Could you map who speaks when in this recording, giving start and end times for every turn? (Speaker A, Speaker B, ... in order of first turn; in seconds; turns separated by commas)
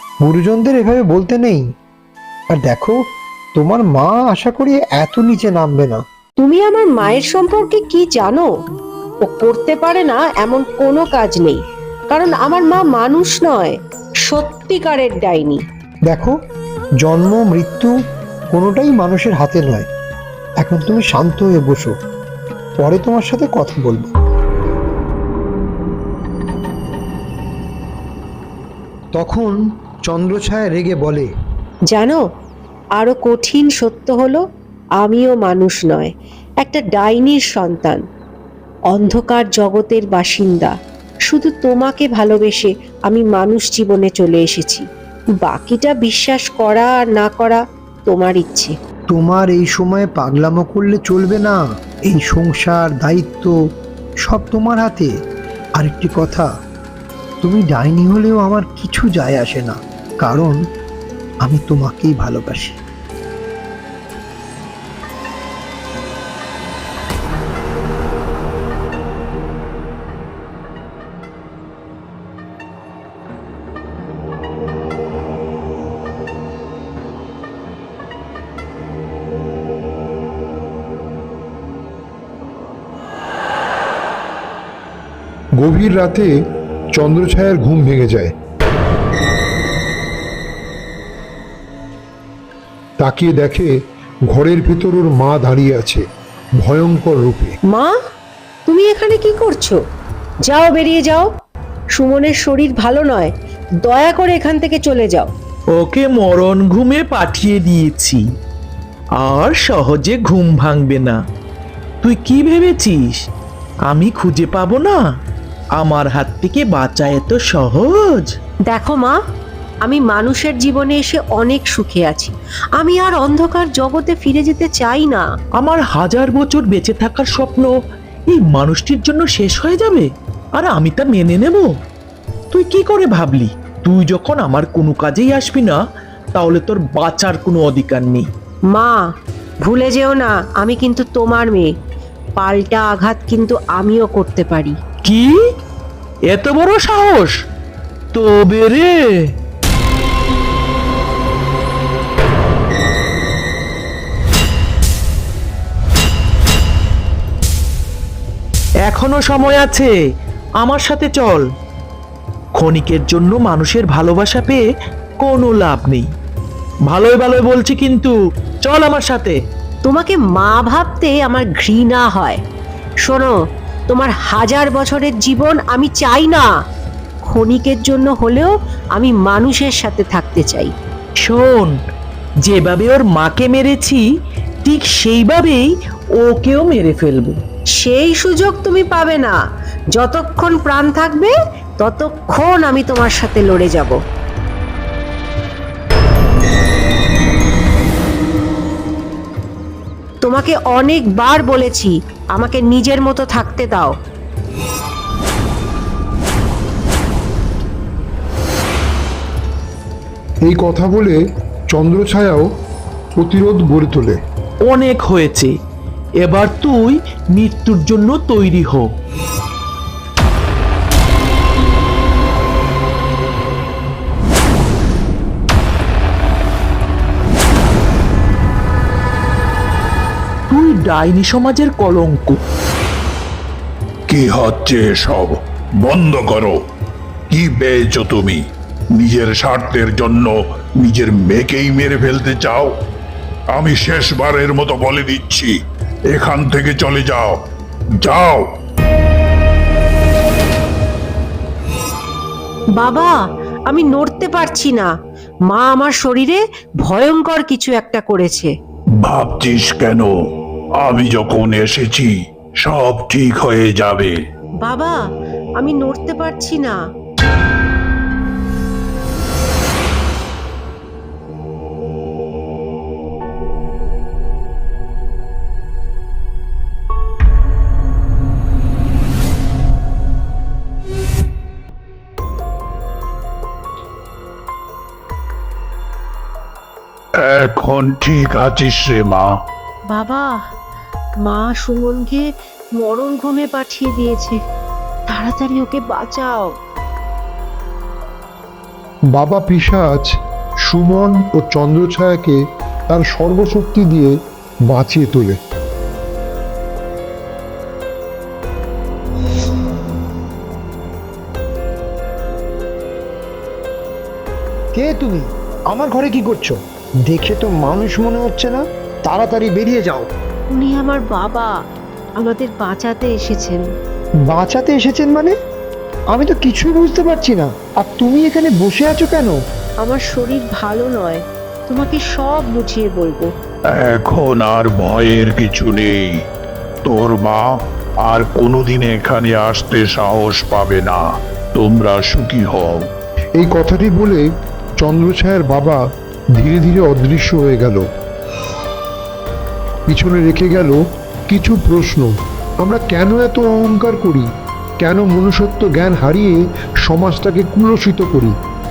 Speaker A: 0.2-1.7, Speaker A: 2.5-3.0, Speaker A: 3.6-6.0, Speaker B: 6.4-8.5, Speaker B: 9.2-13.8, Speaker B: 14.3-15.6, Speaker A: 16.1-16.4, Speaker A: 17.0-17.9, Speaker A: 18.5-19.9, Speaker A: 20.6-21.9, Speaker A: 22.8-24.1, Speaker A: 29.2-29.4, Speaker C: 30.1-30.7, Speaker A: 30.7-31.3, Speaker B: 31.9-32.2, Speaker B: 33.0-34.4, Speaker B: 35.0-36.1, Speaker B: 36.6-38.0, Speaker B: 38.9-40.7, Speaker B: 41.3-44.9, Speaker B: 45.4-48.7, Speaker A: 49.1-53.5, Speaker A: 54.2-55.1, Speaker A: 55.8-56.5, Speaker A: 57.4-60.6, Speaker A: 61.4-62.8, Speaker C: 85.6-86.3, Speaker C: 86.9-88.3, Speaker C: 93.0-93.7, Speaker C: 94.3-96.0, Speaker C: 96.6-97.6, Speaker B: 98.7-99.8, Speaker B: 100.5-101.3, Speaker B: 102.0-103.3, Speaker B: 103.8-105.3, Speaker D: 105.8-108.2, Speaker D: 109.2-111.2, Speaker D: 112.0-113.2, Speaker D: 113.9-115.0, Speaker D: 115.8-118.3, Speaker B: 118.7-119.2, Speaker B: 119.8-125.3, Speaker D: 125.6-127.7, Speaker D: 128.3-131.7, Speaker D: 132.5-135.8, Speaker D: 136.4-138.3, Speaker B: 138.7-139.1, Speaker B: 139.6-141.7, Speaker B: 142.4-144.8, Speaker D: 145.1-145.3, Speaker D: 146.3-147.3, Speaker D: 148.1-149.1, Speaker D: 158.8-159.9, Speaker D: 160.6-161.5, Speaker D: 162.6-164.7, Speaker D: 165.2-166.1, Speaker D: 166.9-169.4, Speaker B: 169.8-172.4, Speaker B: 173.1-173.4, Speaker B: 173.9-176.5, Speaker B: 177.3-180.7, Speaker D: 181.2-181.8, Speaker D: 182.5-184.0, Speaker D: 184.7-187.4, Speaker B: 187.8-189.4, Speaker B: 189.9-194.0, Speaker B: 200.2-203.9, Speaker C: 210.5-211.2, Speaker C: 211.7-212.5, Speaker C: 213.2-214.2, Speaker D: 214.7-215.5, Speaker D: 216.2-218.8, Speaker D: 230.5-232.4, Speaker E: 234.1-236.6, Speaker E: 237.3-238.4, Speaker E: 239.0-242.7, Speaker E: 243.5-245.6, Speaker E: 246.1-247.4, Speaker E: 248.0-248.5, Speaker B: 252.8-254.9, Speaker B: 255.5-258.5, Speaker E: 259.0-260.1, Speaker E: 260.8-264.2, Speaker B: 264.6-265.0, Speaker B: 265.6-266.8, Speaker E: 287.2-289.3, Speaker B: 289.9-290.4, Speaker B: 291.2-292.3, Speaker B: 292.8-294.4, Speaker B: 295.1-296.5, Speaker C: 299.1-300.1, Speaker C: 300.7-304.1, Speaker C: 304.7-305.4, Speaker A: 314.8-316.6, Speaker A: 317.1-320.1, Speaker B: 320.5-321.5, Speaker B: 322.2-323.6, Speaker A: 324.3-325.3, Speaker A: 326.1-329.4, Speaker B: 329.8-333.3, Speaker E: 333.8-336.1, Speaker E: 336.9-337.5, Speaker E: 338.1-341.0, Speaker E: 341.5-342.9, Speaker C: 343.4-344.2, Speaker C: 344.8-345.8, Speaker C: 346.4-347.9, Speaker C: 349.9-354.3, Speaker C: 354.8-358.4